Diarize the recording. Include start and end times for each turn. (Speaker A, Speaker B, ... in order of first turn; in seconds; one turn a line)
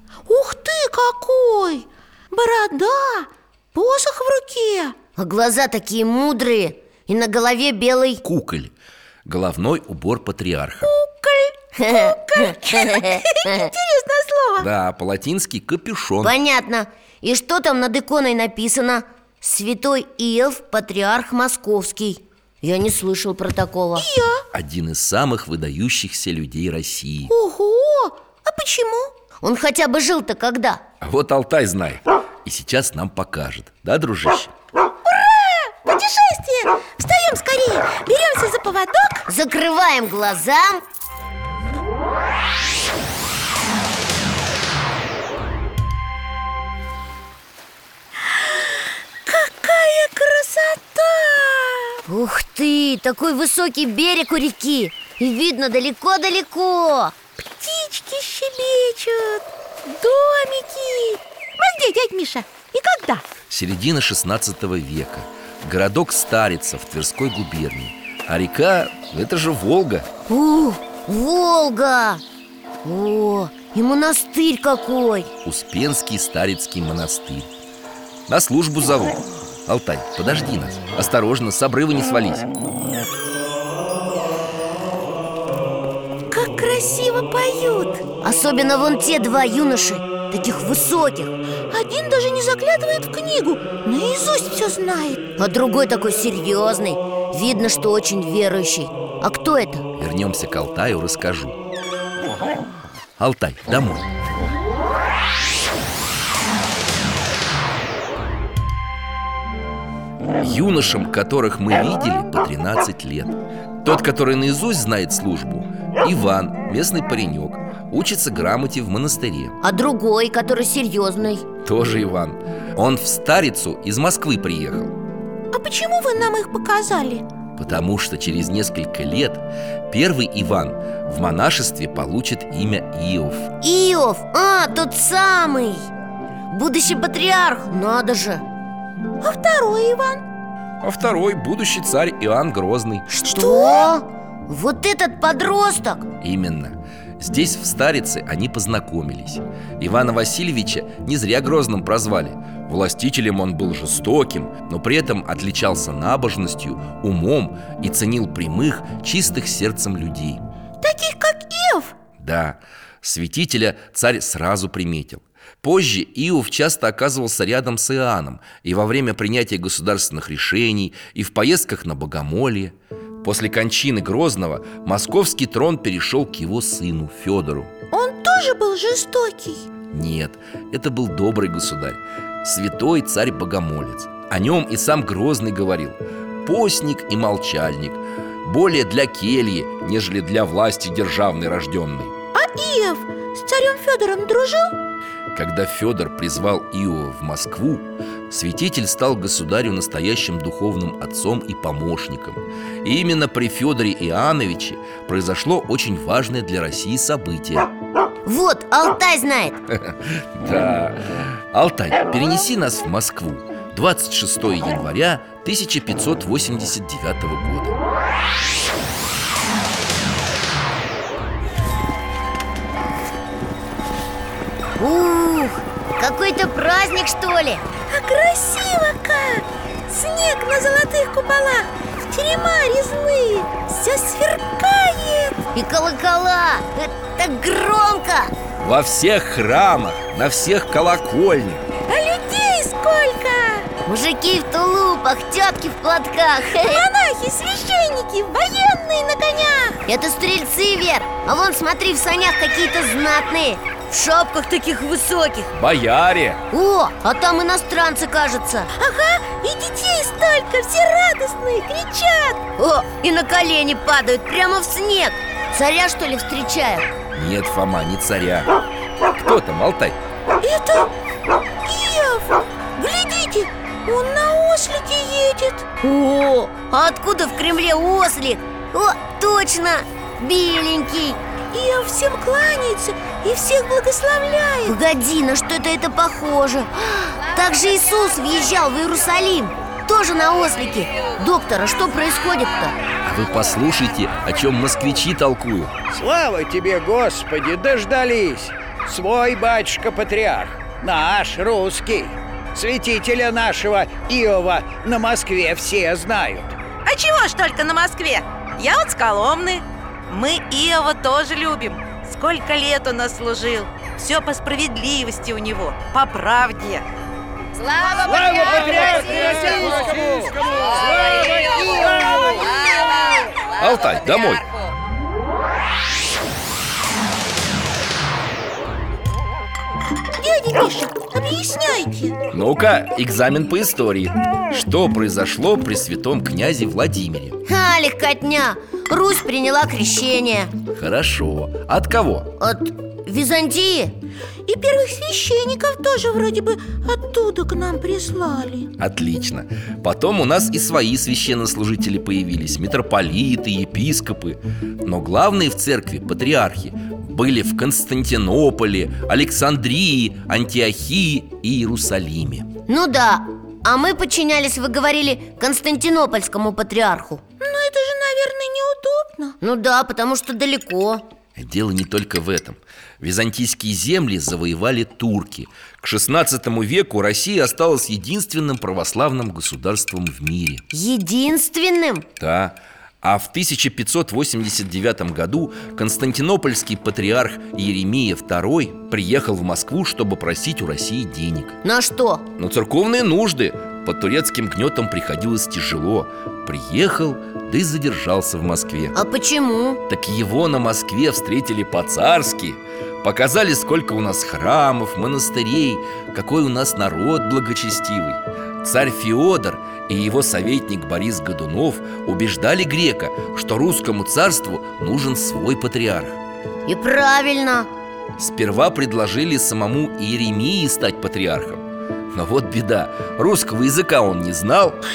Speaker A: 0.2-5.0
Speaker B: 5.2-8.2
Speaker C: 8.2-8.7
Speaker C: 9.2-10.9
Speaker A: 10.8-14.7
Speaker B: 11.8-13.7
Speaker C: 14.6-16.3
Speaker B: 16.2-24.1
Speaker A: 23.9-24.4
Speaker C: 24.5-27.3
Speaker A: 27.3-29.1
Speaker B: 29.4-30.8
Speaker C: 31.0-34.5
Speaker A: 35.0-39.2
Speaker B: 39.3-40.8
Speaker A: 48.3-52.0
Speaker B: 52.1-57.1
Speaker A: 57.4-63.2
Speaker C: 63.5-70.1
Speaker B: 70.3-72.2
Speaker B: 72.8-75.3
Speaker C: 75.4-77.5
Speaker C: 78.3-82.5
Speaker A: 86.3-88.0
Speaker B: 88.2-91.3
Speaker A: 91.7-95.2
Speaker B: 95.4-99.8
Speaker C: 100.0-101.6
Speaker C: 103.2-104.1
Speaker C: 110.4-119.6
Speaker B: 119.6-121.5
Speaker C: 121.6-124.9
Speaker A: 125.5-127.2
Speaker C: 127.6-133.5
Speaker B: 133.6-135.9
Speaker B: 136.5-138.4
Speaker A: 139.2-140.2
Speaker C: 140.8-143.1
Speaker B: 143.1-146.1
Speaker A: 143.3-143.9
Speaker C: 146.2-160.4
Speaker A: 160.8-161.9
Speaker C: 162.2-177.7
Speaker A: 177.9-179.7
Speaker C: 179.9-192.1
Speaker A: 192.3-194.7
Speaker C: 195.3-207.7
Speaker B: 208.2-209.6
Speaker C: 209.7-217.8
Speaker B: 224.8-227.6
Speaker A: 227.9-235.4
Speaker B: 235.5-238.3
Speaker C: 238.6-241.6
Speaker A: 241.9-243.7
Speaker B: 243.8-246.8
Speaker A: 246.5-249.8
Speaker B: 249.8-255.5
Speaker C: 255.5-256.4
Speaker B: 256.5-258.7
Speaker A: 258.8-262.4
Speaker B: 262.6-266.9
Speaker C: 267.1-268.6
Speaker C: 269.1-270.0
Speaker A: 270.4-270.9
Speaker A: 271.6-275.7
Speaker B: 275.8-281.2
Speaker A: 281.5-284.8
Speaker B: 284.6-292.7
Speaker C: 293.0-295.7
Speaker D: 295.9-306.6
Speaker E: 306.8-316.8
Speaker E: 317.6-319.7
Speaker D: 318.0-322.8
Speaker E: 322.5-323.2
Speaker C: 323.6-324.5
Speaker A: 330.2-332.2
Speaker C: 332.3-337.4
Speaker B: 337.4-340.5
Speaker C: 340.7-342.3
Speaker B: 342.4-343.9
Speaker A: 344.4-348.7
Speaker C: 348.8-362.5
Speaker B: 362.7-367.2
Speaker A: 367.4-369.4
Speaker B: 369.4-371.0
Speaker C: 371.4-380.6
Speaker B: 380.7-382.1
Speaker C: 382.2-391.6
Speaker B: 391.6-392.2
Speaker C: 392.4-398.9
Speaker B: 398.9-399.8
Speaker C: 399.9-416.2
Speaker B: 416.7-417.7
Speaker C: 418.2-424.8